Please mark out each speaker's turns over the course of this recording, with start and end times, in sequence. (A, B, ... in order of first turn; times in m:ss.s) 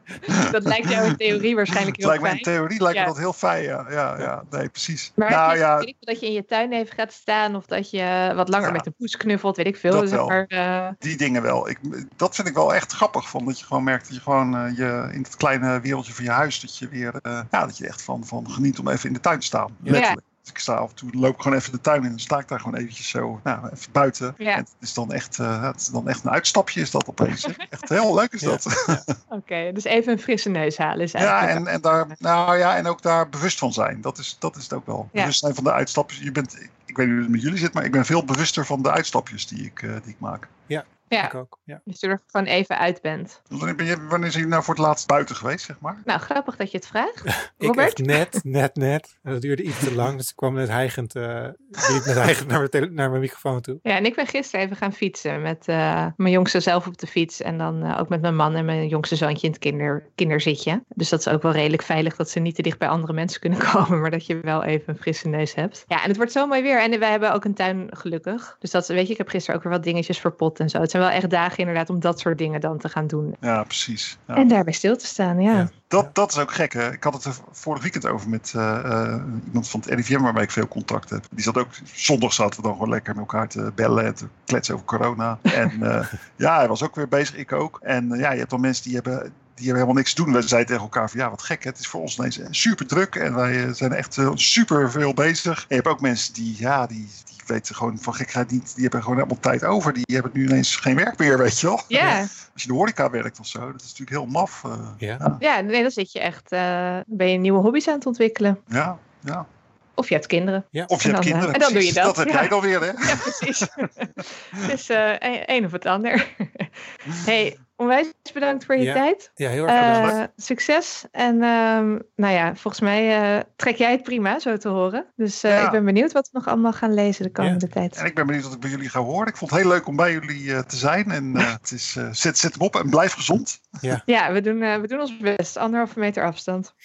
0:00.3-0:03.1 A
0:02.0-0:05.9 B
0:05.2-0:11.0 A
0:08.6-0:08.8 B
0:09.9-0:10.4 B
0:11.0-0:29.1 B
0:19.9-0:20.2 A
0:24.4-0:24.6 A
0:28.4-0:29.0 C
0:29.3-0:31.6 A
0:31.2-0:40.5 B
0:40.7-0:41.8 C
0:41.1-0:43.4 A
0:43.5-0:46.0 B
0:46.0-0:48.4 A
0:47.5-0:53.8 C
0:53.8-1:13.4 A
1:13.4-1:14.5 B
1:14.4-1:15.7 A
1:15.5-1:16.1 C
1:15.9-1:45.4 B
1:41.9-1:42.3 A
1:45.4-1:48.6 A
1:48.7-1:49.4 B
1:50.0-2:08.0 A
1:50.9-1:53.7 B
1:58.8-2:00.2 C
1:59.7-2:00.2 B
2:05.5-2:05.8 B
2:07.9-2:13.6 B
2:14.0-2:16.7 A